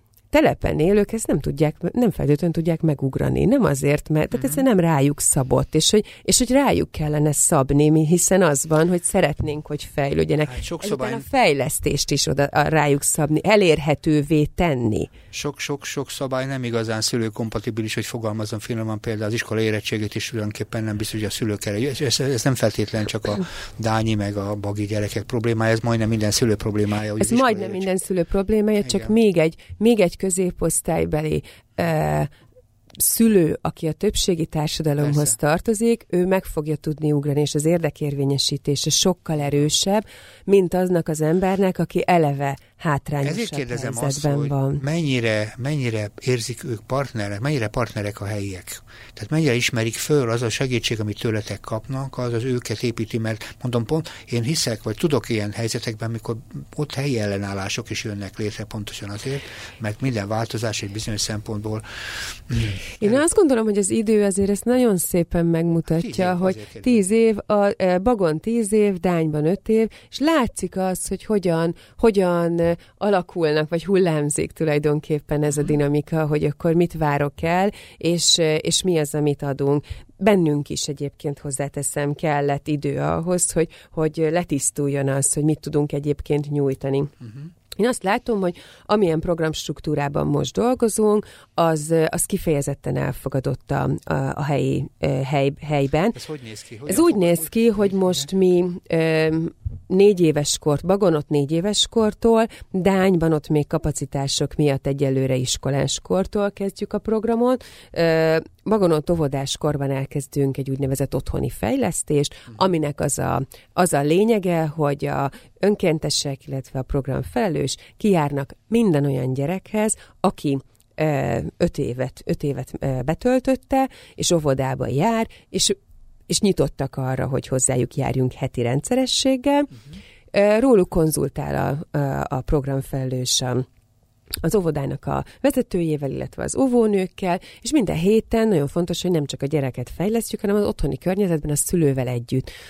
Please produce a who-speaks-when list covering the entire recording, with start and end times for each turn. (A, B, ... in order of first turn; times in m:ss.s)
0:00.3-0:15.1 A
0:10.5-0:11.2 B
0:15.3-0:27.9 B
0:27.2-0:32.3 A
0:28.8-0:29.1 B
0:33.0-0:44.8 A
0:35.0-0:35.3 B
0:43.2-1:03.2 B
1:03.0-1:27.1 A
1:06.0-1:07.0 B
1:27.8-1:36.2 A
1:36.2-1:38.2 B
1:36.9-2:05.8 A
2:06.3-2:09.7 A
2:10.3-2:13.7 A
2:14.4-2:22.5 A